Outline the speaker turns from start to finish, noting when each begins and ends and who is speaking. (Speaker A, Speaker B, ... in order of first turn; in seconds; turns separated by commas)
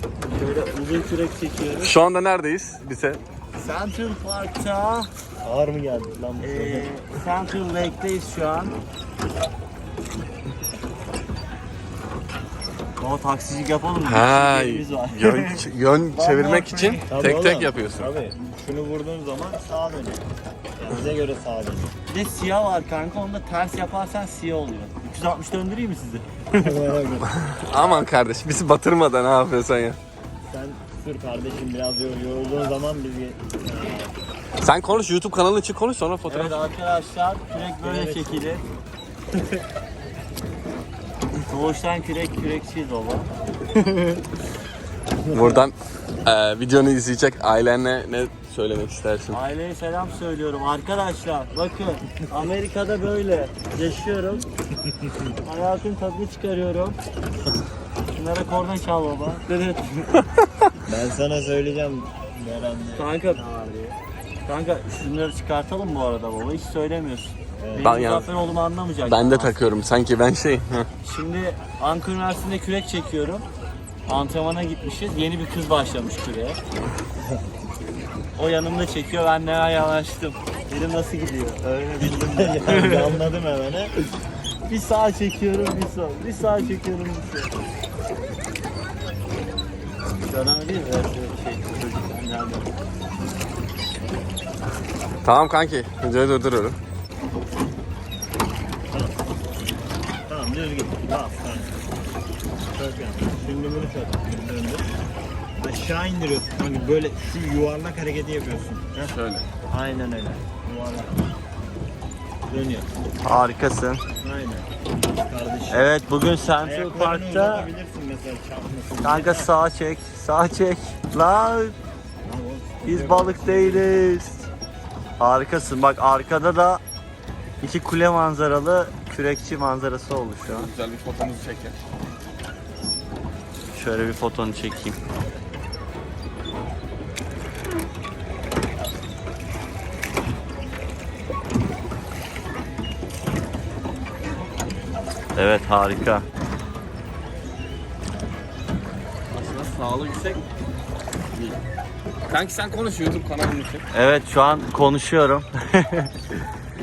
Speaker A: 0.3-2.0, Speaker B: 1.8-3.2, Speaker A: 3.6-5.1, Speaker C: 5.4-6.9, Speaker A: 6.4-8.8, Speaker A: 13.0-17.1, Speaker B: 14.0-18.1, Speaker C: 17.1-20.2, Speaker C: 20.8-21.9, Speaker A: 22.1-26.8, Speaker C: 26.6-27.3, Speaker B: 27.5-30.0, Speaker C: 30.5-34.1, Speaker B: 34.6-36.6, Speaker A: 36.3-38.6, Speaker C: 37.8-38.3, Speaker A: 41.5-44.2, Speaker B: 45.3-49.4, Speaker A: 49.3-54.5, Speaker A: 55.4-57.0, Speaker A: 58.1-60.2, Speaker C: 60.8-63.4, Speaker A: 63.0-64.0, Speaker A: 64.5-69.6, Speaker C: 67.6-68.0, Speaker B: 67.8-68.3, Speaker B: 69.0-70.9, Speaker A: 71.0-73.5, Speaker A: 74.1-76.6, Speaker A: 78.4-83.2, Speaker C: 82.3-83.9, Speaker A: 84.7-87.5, Speaker A: 90.2-92.7, Speaker B: 95.2-96.8, Speaker C: 98.9-99.2, Speaker C: 100.3-101.8, Speaker C: 102.8-104.9, Speaker C: 105.6-109.1, Speaker B: 109.0-109.5, Speaker C: 109.7-111.2, Speaker C: 112.5-112.9, Speaker A: 113.2-114.0, Speaker C: 114.2-114.7, Speaker C: 115.2-115.9, Speaker A: 115.7-117.7, Speaker C: 116.6-119.5, Speaker A: 119.0-121.8, Speaker C: 122.2-123.9, Speaker A: 122.8-124.5, Speaker A: 125.2-126.8, Speaker A: 127.6-130.7, Speaker B: 130.4-131.8, Speaker A: 133.7-135.0, Speaker A: 145.4-146.2, Speaker B: 149.3-150.4, Speaker B: 152.3-153.9, Speaker A: 153.9-156.1